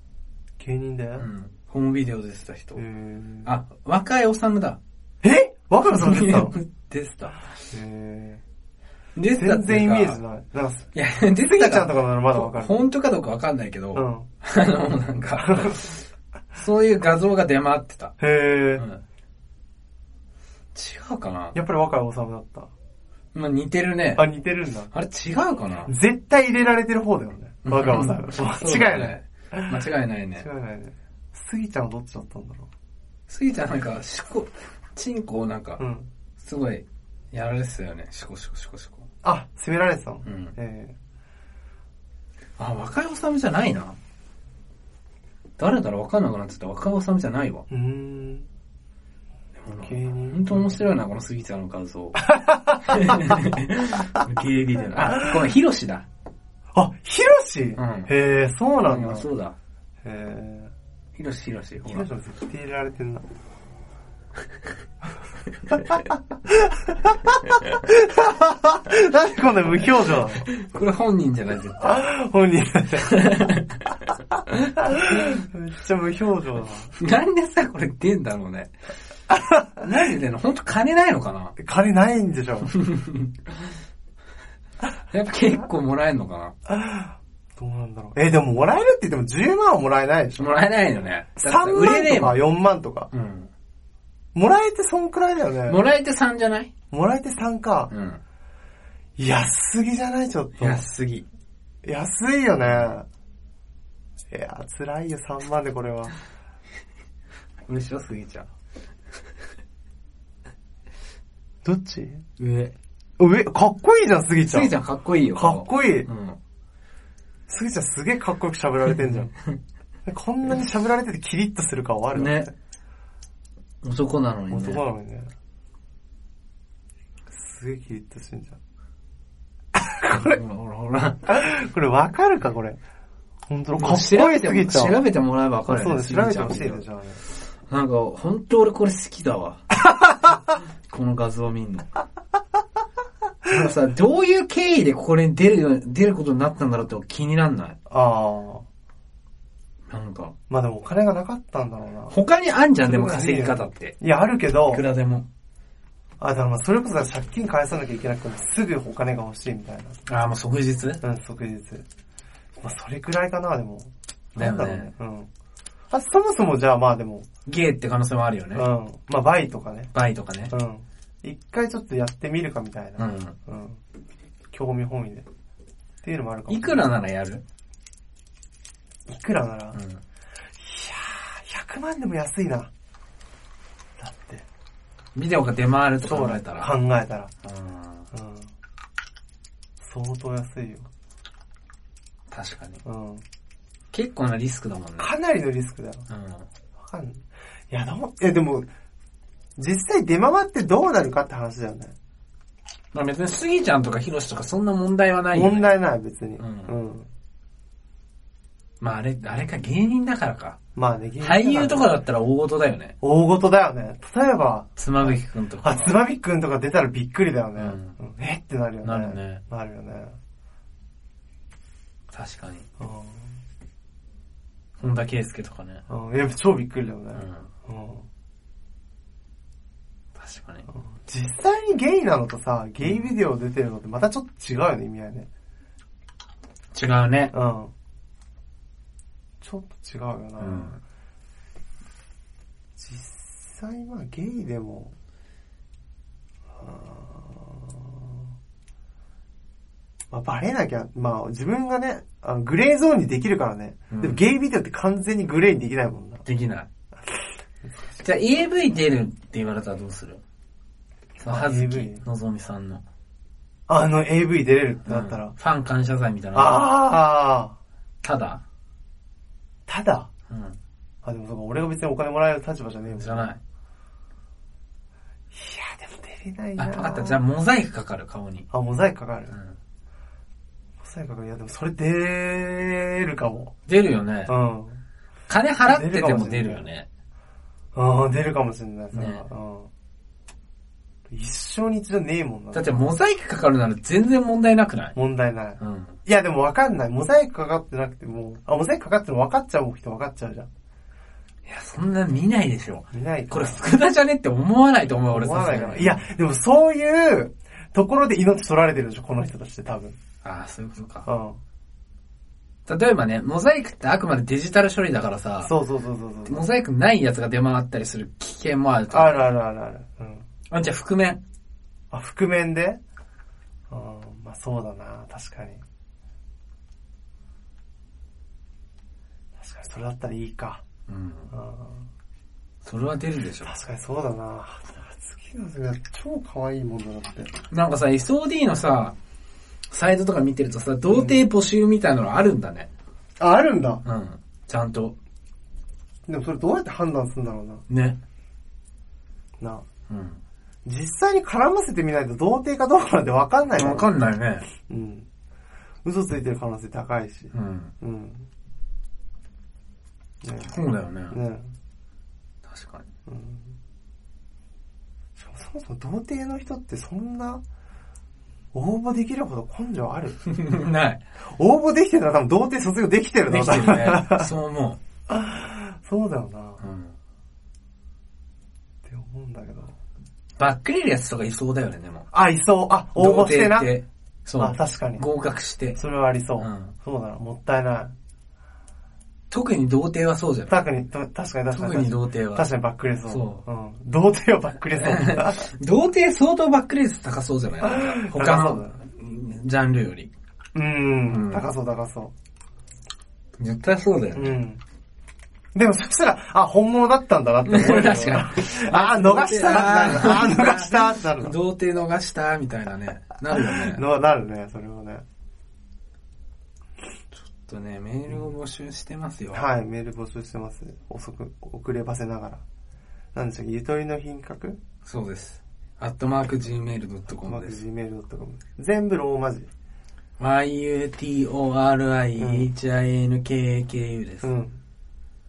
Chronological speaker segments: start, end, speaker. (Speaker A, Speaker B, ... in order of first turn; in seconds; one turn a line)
Speaker A: 0.6-1.3
Speaker B: 1.2-2.8
Speaker A: 2.8-3.5
Speaker B: 3.4-4.8
Speaker A: 5.2-6.5
Speaker B: 5.9-7.4
Speaker A: 7.7-8.4
Speaker B: 9.2-10.2
Speaker A: 9.3-12.8
Speaker B: 10.9-18.1
Speaker A: 13.9-14.3
Speaker A: 15.4-15.8
Speaker A: 18.2-18.8
Speaker B: 18.8-19.0
Speaker B: 20.7-21.6
Speaker A: 21.5-22.7
Speaker B: 23.3-24.2
Speaker A: 24.1-24.9
Speaker B: 24.9-25.9
Speaker A: 25.9-32.7
Speaker B: 27.6-30.4
Speaker B: 33.3-35.8
Speaker A: 35.8-36.1
Speaker B: 36.4-39.0
Speaker A: 39.2-40.9
Speaker B: 40.2-40.5
Speaker B: 42.6-44.0
Speaker B: 45.6-47.6
Speaker A: 47.7-48.5
Speaker B: 49.6-56.0
Speaker A: 49.8-50.8
Speaker A: 52.1-53.4
Speaker A: 55.0-55.4
Speaker A: 56.7-59.2
Speaker B: 57.8-58.1
Speaker B: 58.9-59.5
Speaker A: 60.0-60.7
Speaker B: 61.2-62.1
Speaker A: 61.8-63.2
Speaker A: 65.7-70.5
Speaker B: 70.4-72.0
Speaker A: 71.8-73.3
Speaker B: 73.0-74.0
Speaker B: 74.7-75.3
Speaker A: 74.8-76.9
Speaker B: 77.0-78.7
Speaker A: 79.3-79.7
Speaker B: 79.8-81.5
Speaker A: 81.6-82.7
Speaker B: 82.7-83.5
Speaker B: 85.1-86.5
Speaker A: 86.7-90.5
Speaker B: 90.4-92.4
Speaker A: 91.4-93.1
Speaker B: 93.1-93.5
Speaker A: 94.3-95.8
Speaker B: 95.7-96.7
Speaker A: 96.9-97.9
Speaker B: 97.9-98.2
Speaker A: 99.2-100.8
Speaker B: 100.6-101.2
Speaker A: 101.8-103.0
Speaker B: 102.6-102.9
Speaker A: 104.3-106.1
Speaker B: 107.7-108.5
Speaker A: 111.6-112.2
Speaker B: 112.4-112.7
Speaker A: 113.2-114.7
Speaker B: 114.5-116.4
Speaker A: 115.3-116.1
Speaker A: 117.5-119.3
Speaker A: 120.0-122.5
Speaker B: 122.1-122.5
Speaker B: 123.8-124.8
Speaker A: 124.5-125.3
Speaker A: 127.3-128.6
Speaker A: 130.0-130.4
Speaker B: 130.0-131.3
Speaker A: 131.2-132.8
Speaker A: 133.5-135.0
Speaker B: 133.8-136.8
Speaker A: 135.7-137.2
Speaker B: 137.7-139.6
Speaker A: 139.9-140.4
Speaker B: 140.9-141.9
Speaker B: 143.5-147.8
Speaker A: 147.9-148.6
Speaker B: 149.9-150.3
Speaker A: 150.5-152.1
Speaker B: 152.1-153.9
Speaker A: 152.8-154.8
Speaker B: 154.7-155.2
Speaker A: 156.2-160.0
Speaker B: 160.1-161.0
Speaker A: 161.0-161.8
Speaker A: 162.6-165.3
Speaker B: 164.3-164.9
Speaker A: 165.9-167.3
Speaker B: 167.4-168.7
Speaker A: 168.5-169.9
Speaker B: 169.9-170.5
Speaker A: 170.5-173.8
Speaker B: 173.0-173.3
Speaker A: 174.5-175.3
Speaker A: 176.0-176.8
Speaker B: 176.5-177.4
Speaker A: 179.1-179.8
Speaker B: 179.7-180.0
Speaker A: 180.6-182.7
Speaker A: 184.0-184.4
Speaker B: 185.1-186.7
Speaker A: 186.0-187.3
Speaker B: 187.4-188.1
Speaker A: 188.1-188.5
Speaker A: 189.8-190.9
Speaker B: 192.3-192.8
Speaker A: 192.8-193.2
Speaker B: 193.9-195.1
Speaker A: 195.0-196.1
Speaker B: 196.1-196.5
Speaker A: 196.8-198.7
Speaker A: 199.6-201.9
Speaker B: 202.9-205.7
Speaker A: 205.3-207.1
Speaker B: 206.4-206.7
Speaker B: 208.8-210.6
Speaker A: 210.7-211.9
Speaker B: 211.2-212.9
Speaker A: 213.0-220.2
Speaker B: 214.8-216.0
Speaker B: 217.6-217.9
Speaker B: 218.8-219.4
Speaker B: 222.1-222.7
Speaker A: 222.8-223.3
Speaker B: 224.8-225.8
Speaker A: 225.9-228.1
Speaker B: 227.1-227.5
Speaker B: 230.2-230.7
Speaker A: 230.7-235.3
Speaker B: 232.8-233.1
Speaker B: 236.7-237.3
Speaker A: 237.3-237.7
Speaker A: 239.4-240.7
Speaker B: 240.4-240.8
Speaker A: 242.8-244.9
Speaker A: 246.6-248.2
Speaker A: 250.1-256.2
Speaker B: 253.9-254.2
Speaker B: 256.2-256.7
Speaker A: 257.0-258.0
Speaker B: 258.0-260.2
Speaker B: 261.2-262.8
Speaker A: 261.2-262.0
Speaker A: 263.7-265.3
Speaker B: 264.9-266.7
Speaker A: 266.3-267.6
Speaker B: 268.0-268.4
Speaker A: 269.7-270.1
Speaker B: 270.3-270.6
Speaker A: 271.0-273.3
Speaker B: 272.9-273.4
Speaker A: 275.3-277.2
Speaker B: 276.6-278.5
Speaker A: 278.5-279.4
Speaker A: 280.8-283.5
Speaker B: 283.7-284.3
Speaker A: 284.3-284.8
Speaker B: 285.3-286.9
Speaker A: 285.6-286.6
Speaker A: 287.7-289.7
Speaker B: 288.9-289.2
Speaker A: 291.1-292.8
Speaker B: 292.5-294.9
Speaker A: 294.9-300.5
Speaker B: 295.6-296.0
Speaker B: 301.4-306.1
Speaker A: 302.9-303.6
Speaker A: 305.1-310.0
Speaker B: 310.2-311.1
Speaker A: 311.1-311.4
Speaker B: 312.7-315.5
Speaker A: 315.4-316.4
Speaker B: 316.2-319.3
Speaker A: 318.9-320.2
Speaker B: 320.5-321.2
Speaker A: 321.9-322.8
Speaker A: 323.7-325.6
Speaker A: 329.4-330.6
Speaker B: 330.9-331.3
Speaker A: 331.3-331.9
Speaker B: 332.6-333.5
Speaker A: 333.4-337.3
Speaker B: 337.5-338.9
Speaker B: 339.7-342.7
Speaker A: 340.9-341.2
Speaker A: 343.2-343.8
Speaker B: 343.8-344.9
Speaker A: 346.1-347.6
Speaker B: 347.7-348.0
Speaker A: 349.4-349.6
Speaker B: 349.9-350.2
Speaker A: 350.6-353.9
Speaker B: 353.6-354.5
Speaker A: 354.6-355.1
Speaker A: 355.8-358.3
Speaker B: 357.3-357.7
Speaker A: 360.2-360.5
Speaker B: 360.4-361.2
Speaker A: 361.1-361.5
Speaker B: 362.5-362.8
Speaker A: 363.1-363.6
Speaker A: 365.1-367.4
Speaker A: 368.5-370.2
Speaker B: 370.2-371.0
Speaker A: 371.2-374.3
Speaker B: 373.3-374.8
Speaker A: 375.1-376.6
Speaker B: 376.6-376.9
Speaker A: 378.8-379.7
Speaker B: 380.4-382.1
Speaker A: 382.1-383.7
Speaker B: 382.9-385.8
Speaker A: 384.4-385.0
Speaker A: 385.7-387.9
Speaker B: 386.4-386.7
Speaker B: 389.3-390.6
Speaker A: 390.5-395.5
Speaker B: 391.5-392.5
Speaker B: 393.1-393.4
Speaker B: 394.7-400.1
Speaker A: 397.6-398.8
Speaker A: 400.5-402.1
Speaker B: 401.1-401.4
Speaker B: 403.4-404.4
Speaker A: 404.1-404.6
Speaker A: 405.5-411.3
Speaker B: 407.4-413.8
Speaker A: 413.3-415.0
Speaker B: 417.1-419.4
Speaker A: 419.3-422.4
Speaker A: 423.1-424.6
Speaker B: 424.8-427.6
Speaker A: 427.1-429.5
Speaker B: 430.2-434.3
Speaker A: 432.2-432.5
Speaker A: 434.2-434.6